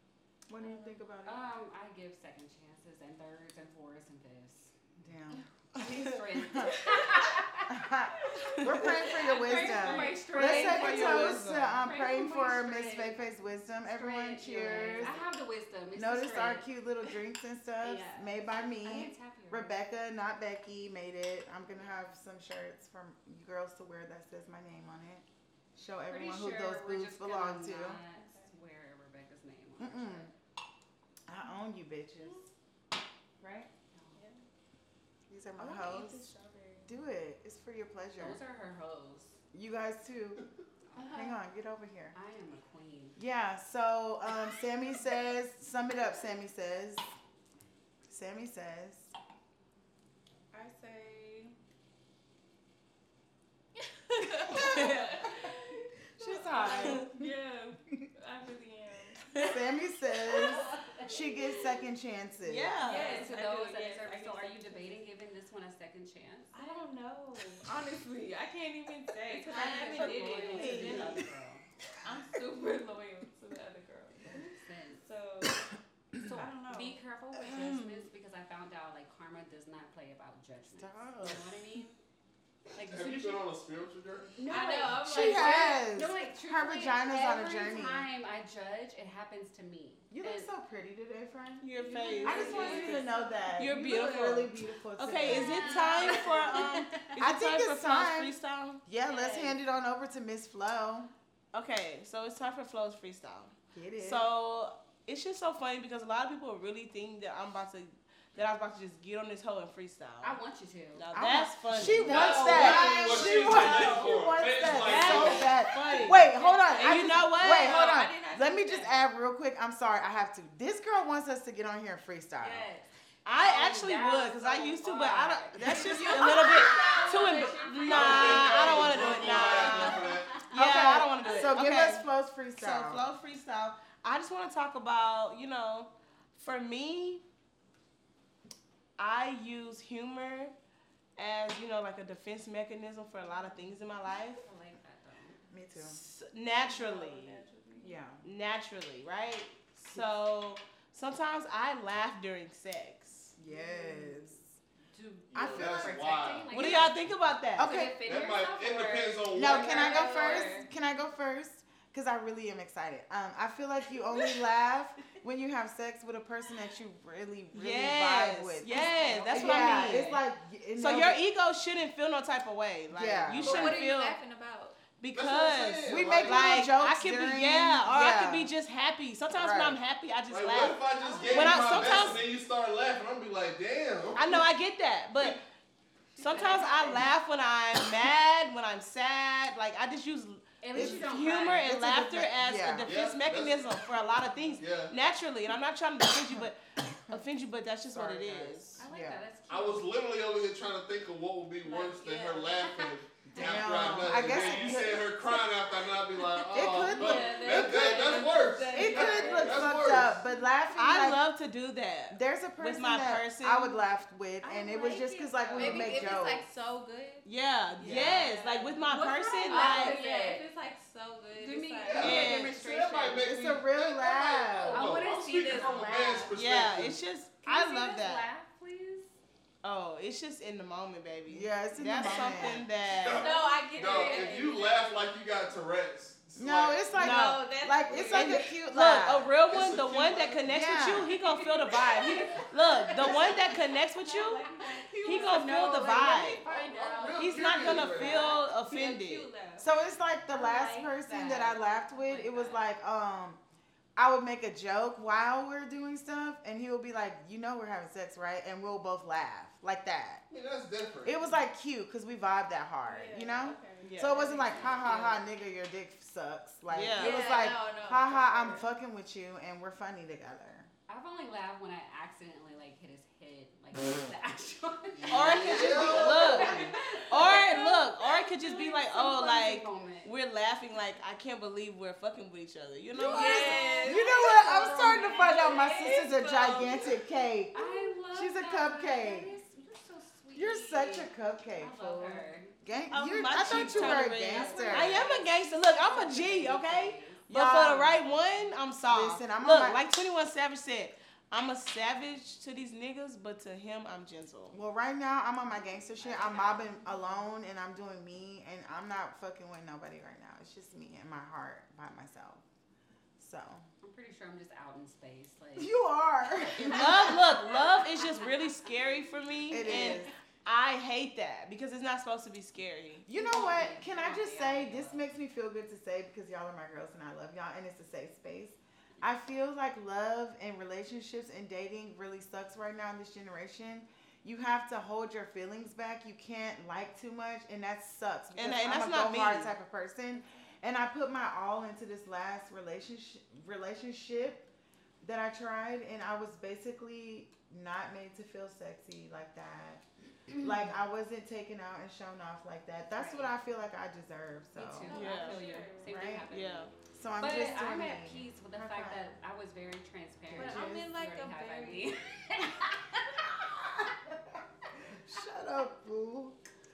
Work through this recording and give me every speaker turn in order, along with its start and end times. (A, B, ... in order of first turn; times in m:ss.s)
0:00.5-0:01.4 A
0:00.6-0:01.0 B
0:01.2-0:04.7 C
0:05.0-0:05.4 A
0:05.7-0:07.8 C
0:05.8-0:06.1 D
0:06.4-0:06.9 A
0:06.9-0:07.2 B
0:07.7-0:15.2 A
0:08.2-0:11.2 B
0:09.1-0:13.2 C
0:10.2-0:11.8 D
0:13.9-0:16.7 C
0:15.9-0:28.0 A
0:17.8-0:19.8 C
0:26.1-0:30.3 C
0:28.1-0:28.6 B
0:29.8-0:30.3 A
0:31.3-0:32.5 A
0:32.2-0:32.5 B
0:33.4-0:33.7 A
0:33.9-0:34.2 C
0:34.1-0:34.4 B
0:35.3-0:36.2 A
0:35.6-0:37.0 B
0:36.9-0:38.4 A
0:38.2-0:39.4 C
0:39.5-0:40.4 A
0:40.9-0:41.2 C
0:41.0-0:41.4 B
0:41.0-0:42.2 A
0:42.1-0:43.2 C
0:43.2-0:47.1 A
0:48.1-0:49.1 A
0:50.5-0:51.5 B
0:53.8-0:59.6 B
0:54.6-0:55.0 D
0:56.2-0:57.3 A
0:56.7-0:57.0 D
0:59.4-1:02.8 A
1:00.2-1:01.7 B
1:00.3-1:01.1 C
1:02.4-1:03.2 D
1:02.8-1:05.0 B
1:02.8-1:06.9 C
1:06.5-1:11.3 B
1:09.3-1:11.7 C
1:10.0-1:11.2 D
1:12.0-1:17.0 B
1:14.3-1:15.0 C
1:16.2-1:21.9 C
1:17.4-1:18.0 D
1:20.8-1:21.7 A
1:22.7-1:23.4 C
1:22.8-1:24.4 E
1:24.4-1:30.5 C
1:24.4-1:25.8 B
1:24.9-1:28.1 A
1:30.1-1:31.6 A
1:31.6-1:38.8 D
1:31.8-1:34.0 B
1:31.9-1:33.0 C
1:32.2-1:36.0 A
1:35.3-1:37.2 C
1:35.8-1:36.1 B
1:37.2-1:41.1 A
1:39.0-1:39.6 C
1:41.5-1:50.4 D
1:43.7-1:44.2 A
1:50.2-1:51.0 C
1:50.9-1:53.9 D
1:51.1-2:02.7 A
1:52.0-1:55.5 E
1:52.4-1:54.1 B
1:52.6-1:52.9 C
1:54.7-1:57.8 D
1:56.0-1:57.2 C
1:56.2-1:59.0 B
2:02.4-2:02.9 B
2:03.2-2:12.0 D
2:03.3-2:10.5 C
2:05.6-2:10.0 B
2:07.9-2:10.3 E
2:10.5-2:13.0 A
2:12.6-2:17.2 D
2:19.0-2:20.5 D
2:21.2-2:24.4 D
2:24.3-2:25.4 C
2:25.5-2:26.0 A
2:25.8-2:27.4 D
2:26.6-2:28.0 B
2:27.8-2:28.2 A
2:28.2-2:33.4 D
2:33.4-2:34.4 A
2:33.5-2:34.4 C
2:34.9-2:37.0 C
2:35.3-2:36.8 E
2:35.3-2:36.2 A
2:36.5-2:37.7 D
2:37.6-2:38.0 A
2:37.6-2:40.7 C
2:38.0-2:40.3 E
2:39.3-2:48.8 A
2:39.7-2:40.6 B
2:47.5-2:50.2 D
2:48.7-2:50.2 C
2:49.3-2:51.2 A
2:50.8-2:54.2 D
2:52.9-2:53.8 A
2:53.4-2:54.9 B
2:55.0-3:02.2 D
2:55.1-2:56.6 E
2:55.8-2:58.5 A
2:59.3-2:59.8 A
3:00.3-3:04.5 E
3:00.9-3:02.2 B
3:04.2-3:05.4 D
3:06.2-3:18.8 D
3:06.2-3:07.0 B
3:06.3-3:07.0 C
3:10.6-3:11.7 C
3:10.7-3:12.9 A
3:12.8-3:13.8 E
3:14.6-3:14.9 E
3:17.9-3:19.2 A
3:18.8-3:19.9 C
3:19.5-3:30.2 E
3:21.6-3:22.9 B
3:23.3-3:25.1 A
3:23.3-3:25.4 C
3:24.3-3:24.7 B
3:26.1-3:28.5 C
3:26.5-3:27.9 A
3:26.8-3:30.0 B
3:28.7-3:31.3 A
3:30.8-3:33.8 D
3:32.1-3:36.4 A
3:34.4-3:43.3 B
3:35.5-3:36.0 C
3:37.2-3:40.0 D
3:37.8-3:38.2 A
3:37.9-3:38.1 E
3:38.9-3:40.5 C
3:41.3-3:43.2 C
3:41.8-3:47.0 E
3:42.0-3:42.6 D
3:43.2-3:45.0 A
3:44.7-3:46.4 C
3:44.7-3:46.0 B
3:46.3-3:48.3 D
3:47.4-3:49.1 C
3:49.6-3:53.3 D
3:51.3-3:52.7 A
3:52.9-3:57.0 E
3:53.1-3:55.0 B
3:53.8-3:54.4 C
3:56.4-3:59.3 A
3:56.9-4:04.4 D
3:57.0-3:58.5 B
3:59.5-4:00.5 E
4:00.5-4:01.1 A
4:01.0-4:03.4 C
4:03.0-4:03.4 E
4:03.9-4:09.7 B
4:04.6-4:07.4 C
4:05.0-4:06.4 D
4:06.8-4:08.4 E
4:07.2-4:09.3 D
4:09.6-4:13.4 A
4:10.3-4:12.6 C
4:14.0-4:20.2 A
4:20.3-4:21.2 E
4:21.0-4:30.7 A
4:22.8-4:25.2 B
4:23.8-4:24.3 D
4:26.7-4:27.3 D
4:26.9-4:28.7 B
4:30.9-4:40.1 C
4:34.9-4:36.7 E
4:35.1-4:43.8 D
4:43.0-4:47.0 B
4:43.0-4:45.7 C
4:43.1-4:49.3 A
4:47.5-4:52.5 C
4:50.3-4:55.0 A
4:52.9-5:04.6 D
4:53.3-4:57.2 C
4:57.3-4:58.0 A
4:58.8-4:59.8 A
5:04.5-5:12.4 A
5:06.0-5:07.0 C
5:06.0-5:07.0 B
5:13.2-5:13.7 A
5:13.8-5:15.8 C
5:15.6-5:17.3 A
5:16.4-5:19.0 C
5:16.5-5:23.0 D
5:19.5-5:20.1 A
5:19.5-5:20.0 C
5:23.0-5:44.4 A
5:23.1-5:25.0 C
5:38.3-5:39.5 D
5:45.0-5:49.8 A
5:50.4-5:54.9 A
5:52.9-5:53.3 C
5:54.5-6:03.3 C
5:54.8-5:56.2 B
5:54.9-5:55.4 D
5:55.9-5:56.2 A
5:56.2-5:56.7 D
5:56.9-5:59.1 A
6:00.3-6:00.9 A
6:00.3-6:02.0 B
6:05.0-6:06.4 A